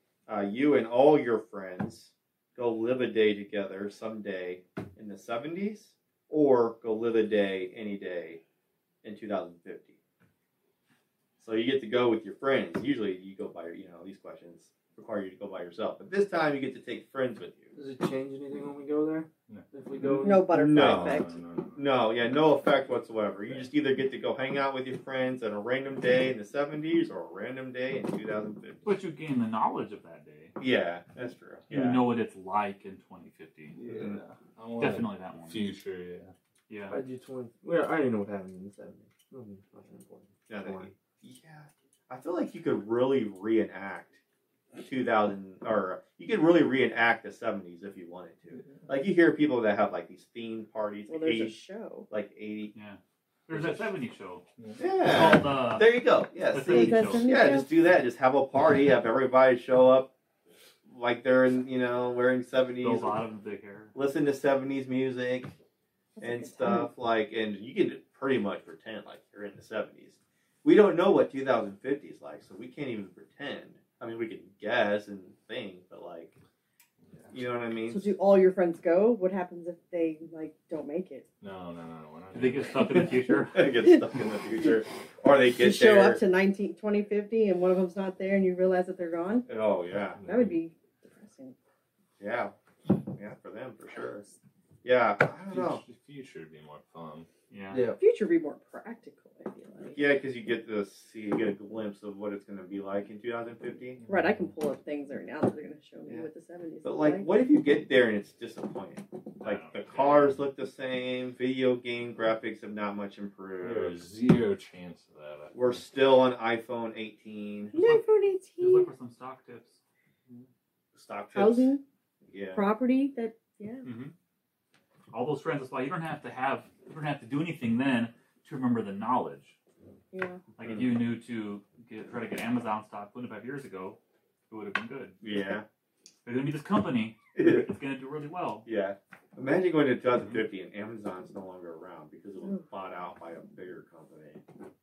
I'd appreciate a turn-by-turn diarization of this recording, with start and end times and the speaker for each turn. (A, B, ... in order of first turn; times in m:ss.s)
0:00.3-0:08.4 A
0:09.0-0:10.0 A
0:11.4-0:17.7 A
0:17.8-0:20.5 B
0:20.2-0:21.3 C
0:20.5-0:28.9 A
0:20.6-0:22.0 D
0:28.8-0:30.6 E
0:30.6-0:32.1 A
0:31.7-0:33.8 E
0:33.7-0:36.3 D
0:33.9-0:34.2 A
0:34.8-0:35.7 E
0:36.7-0:37.0 E
0:36.9-0:40.9 B
0:40.5-0:44.2 A
0:44.8-0:52.7 A
0:51.1-0:52.1 C
0:52.7-0:54.4 E
0:54.8-1:00.1 A
0:55.0-0:57.2 E
0:56.6-0:57.7 C
1:00.9-1:03.2 A
1:02.8-1:04.0 E
1:04.0-1:05.6 A
1:06.2-1:06.9 C
1:06.2-1:16.4 A
1:17.3-1:18.1 A
1:17.9-1:21.3 C
1:21.4-1:23.1 D
1:22.3-1:23.7 E
1:23.5-1:26.2 A
1:23.8-1:24.8 C
1:25.6-1:29.5 C
1:29.5-1:30.2 A
1:30.2-1:30.6 D
1:30.2-1:31.6 C
1:32.2-1:32.5 A
1:33.1-1:34.2 A
1:34.8-1:35.8 A
1:35.5-1:37.3 D
1:37.5-1:37.9 E
1:37.7-1:38.0 B
1:38.0-1:40.0 C
1:39.9-1:44.0 A
1:44.1-1:47.3 C
1:46.8-1:54.1 A
1:49.4-1:50.4 E
1:53.6-1:55.6 D
1:55.5-1:57.8 A
1:57.7-1:58.9 C
1:58.6-1:59.8 E
2:01.0-2:01.8 A
2:01.3-2:01.8 C
2:02.3-2:02.7 A
2:02.5-2:03.9 C
2:03.8-2:04.1 E
2:05.1-2:09.6 E
2:10.1-2:10.4 C
2:10.6-2:14.0 E
2:14.5-2:15.2 E
2:15.2-2:15.6 A
2:16.2-2:18.7 E
2:17.4-2:17.7 A
2:18.6-2:24.4 A
2:20.1-2:20.4 E